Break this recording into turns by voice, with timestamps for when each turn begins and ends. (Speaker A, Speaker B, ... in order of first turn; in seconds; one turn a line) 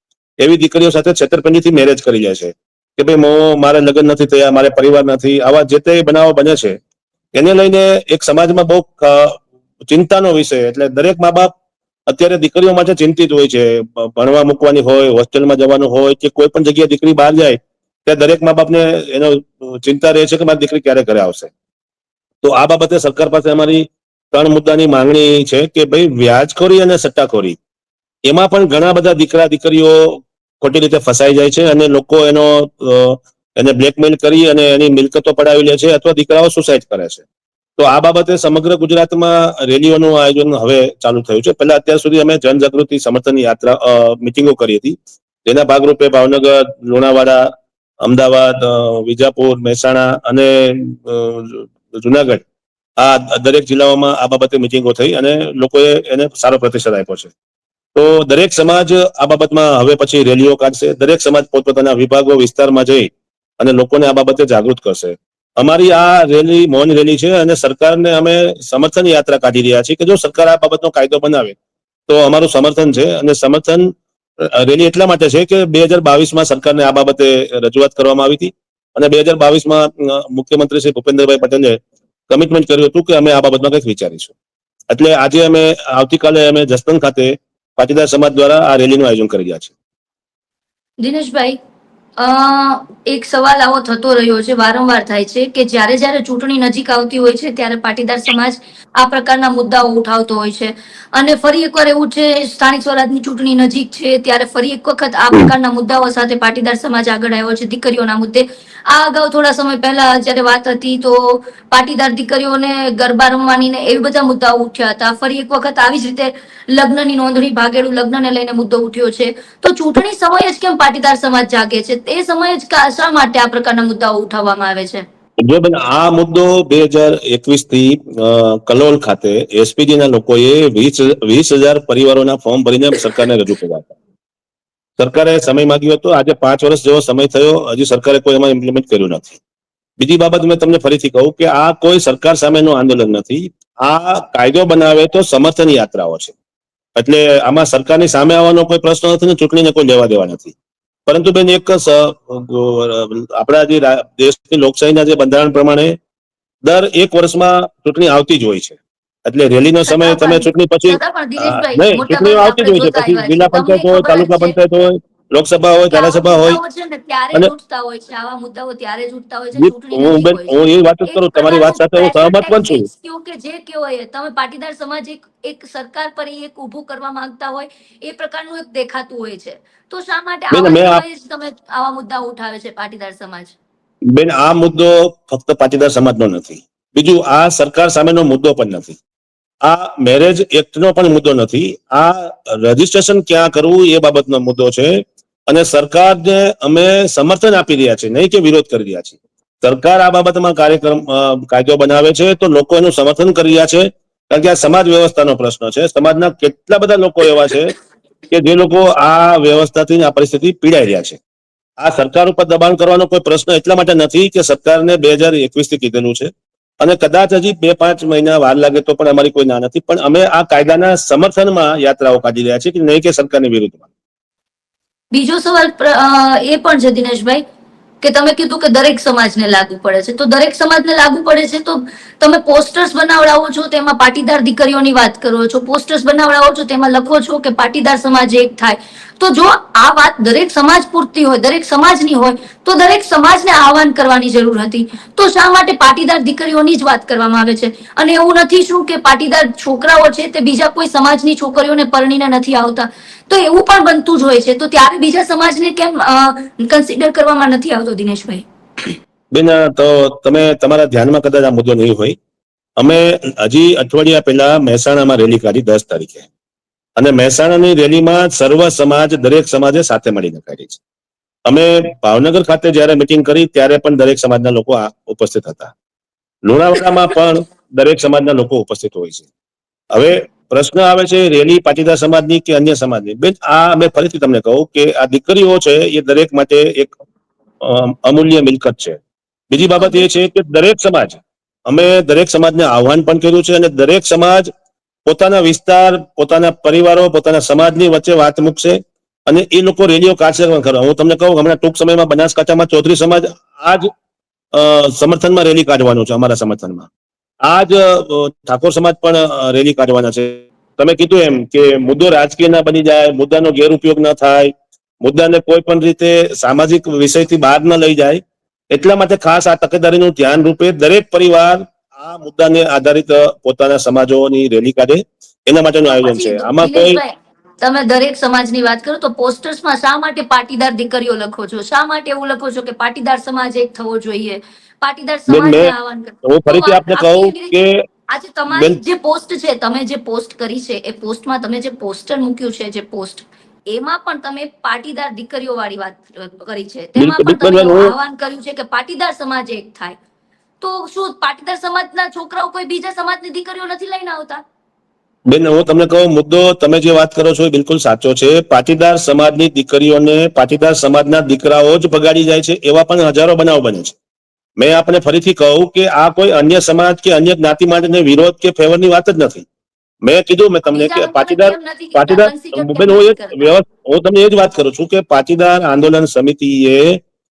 Speaker A: 0.4-6.8
Speaker A: 7.3-11.5
Speaker A: 12.1-21.5
Speaker A: 22.4-27.6
Speaker A: 28.3-37.2
Speaker A: 37.8-47.5
Speaker A: 48.0-52.4
Speaker A: 53.0-57.3
Speaker A: 57.9-71.5
Speaker A: 72.1-81.8
Speaker A: 82.3-84.3
Speaker A: 84.9-89.7
Speaker B: 91.0-91.6
Speaker B: 92.2-125.0
Speaker A: 125.4-133.9
Speaker A: 135.0-139.4
Speaker A: 140.0-146.3
Speaker A: 146.9-150.5
Speaker A: 151.1-155.9
Speaker A: 156.6-166.6
Speaker B: 159.9-164.6
Speaker B: 165.9-183.5
Speaker A: 169.5-172.9
Speaker A: 180.5-181.0
Speaker A: 184.1-189.0
Speaker A: 189.7-207.7
Speaker A: 208.3-211.2
Speaker A: 211.8-216.3
Speaker A: 216.8-223.8
Speaker B: 225.1-227.4
Speaker B: 228.0-258.9
Speaker A: 259.3-262.1
Speaker A: 262.8-266.3
Speaker A: 267.0-270.8
Speaker A: 271.5-275.7
Speaker A: 276.4-279.3
Speaker A: 279.9-286.9
Speaker A: 287.6-289.0
Speaker A: 289.5-294.5
Speaker B: 289.6-290.1
Speaker A: 295.0-303.9
Speaker A: 304.5-306.9
Speaker A: 307.4-318.2
Speaker A: 318.7-327.0
Speaker B: 325.9-337.6
Speaker A: 335.3-337.8
Speaker B: 338.1-350.0
Speaker A: 338.5-338.8
Speaker A: 347.0-347.9
Speaker B: 350.6-354.4
Speaker A: 355.3-363.9
Speaker A: 364.6-369.4
Speaker A: 370.0-377.0
Speaker B: 370.7-373.6